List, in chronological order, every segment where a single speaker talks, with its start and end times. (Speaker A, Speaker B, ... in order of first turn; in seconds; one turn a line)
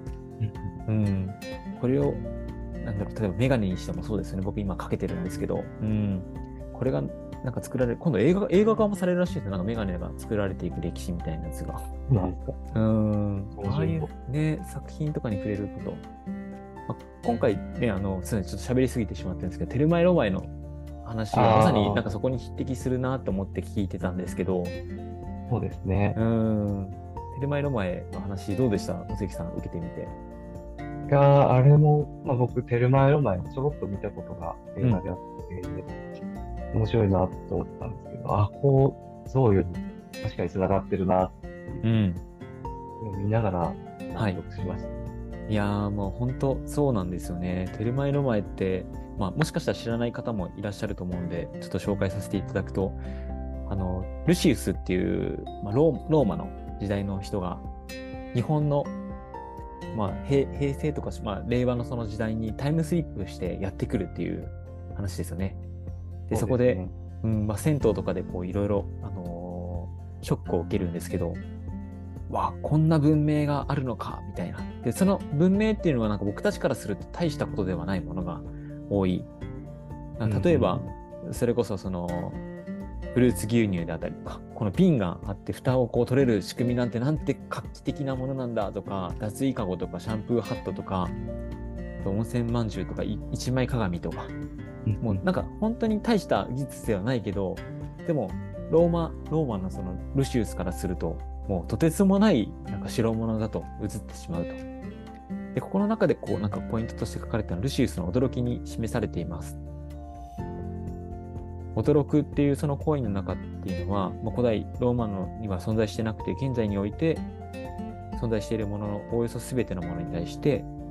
Speaker A: 0.4-0.8
Speaker B: 0.9-2.3
Speaker B: 2.8-11.8
Speaker A: 12.1-12.6
Speaker B: 12.7-16.0
Speaker A: 13.6-14.1
Speaker B: 16.9-24.8
Speaker A: 21.3-22.0
Speaker A: 25.5-26.2
Speaker B: 26.1-30.1
Speaker A: 31.1-35.9
Speaker A: 36.7-41.8
Speaker B: 41.8-42.2
Speaker A: 43.0-45.1
Speaker B: 44.1-44.4
Speaker B: 45.5-53.0
Speaker B: 53.7-57.6
Speaker B: 58.3-58.9
Speaker B: 59.9-65.6
Speaker B: 66.3-71.4
Speaker A: 66.3-66.9
Speaker B: 72.3-79.3
Speaker B: 80.2-82.4
Speaker A: 80.2-80.9
Speaker B: 83.1-91.1
Speaker B: 92.0-94.3
Speaker A: 94.9-95.2
Speaker B: 95.0-104.6
Speaker B: 105.5-109.6
Speaker B: 111.7-117.3
Speaker B: 118.2-120.7